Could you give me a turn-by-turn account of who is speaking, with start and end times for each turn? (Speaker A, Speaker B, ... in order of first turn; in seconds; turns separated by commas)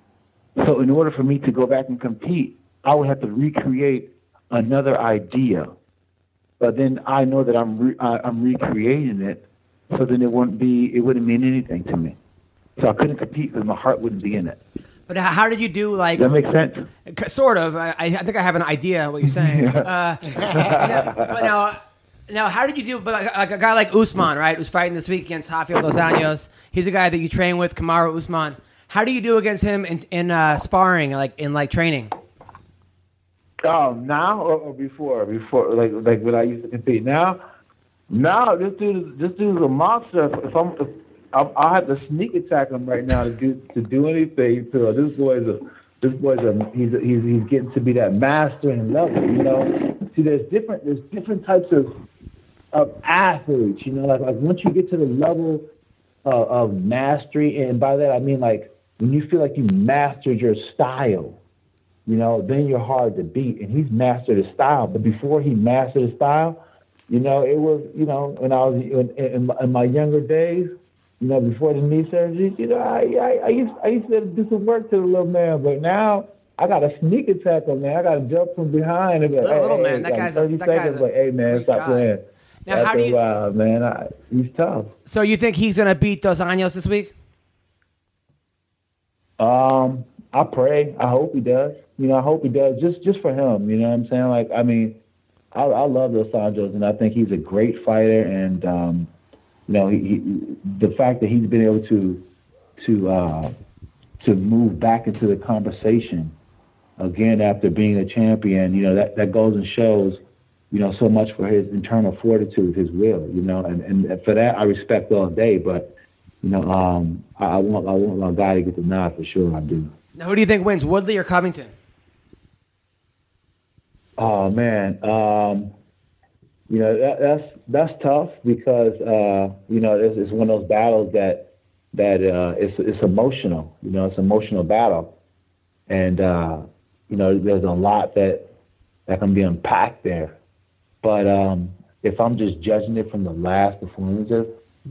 Speaker A: 0.6-5.7, Speaker A: 6.6-12.2, Speaker A: 12.8-14.6, Speaker B: 15.1-16.3, Speaker A: 16.1-16.9, Speaker B: 17.1-32.1, Speaker A: 19.2-21.5, Speaker A: 33.6-37.4, Speaker A: 38.1-51.9, Speaker A: 52.7-55.6, Speaker A: 56.2-61.4, Speaker A: 62.0-84.9, Speaker B: 79.4-82.1, Speaker B: 82.7-83.2, Speaker B: 85.0-87.1, Speaker A: 89.4-95.0, Speaker A: 95.5-99.1, Speaker A: 99.7-102.2, Speaker A: 102.8-103.5, Speaker A: 104.2-106.3, Speaker A: 107.0-110.2, Speaker A: 110.7-115.9, Speaker A: 116.4-119.9, Speaker B: 120.2-121.7, Speaker A: 124.2-125.7, Speaker A: 126.7-135.1, Speaker A: 135.9-138.4, Speaker A: 139.1-140.4, Speaker A: 141.0-144.5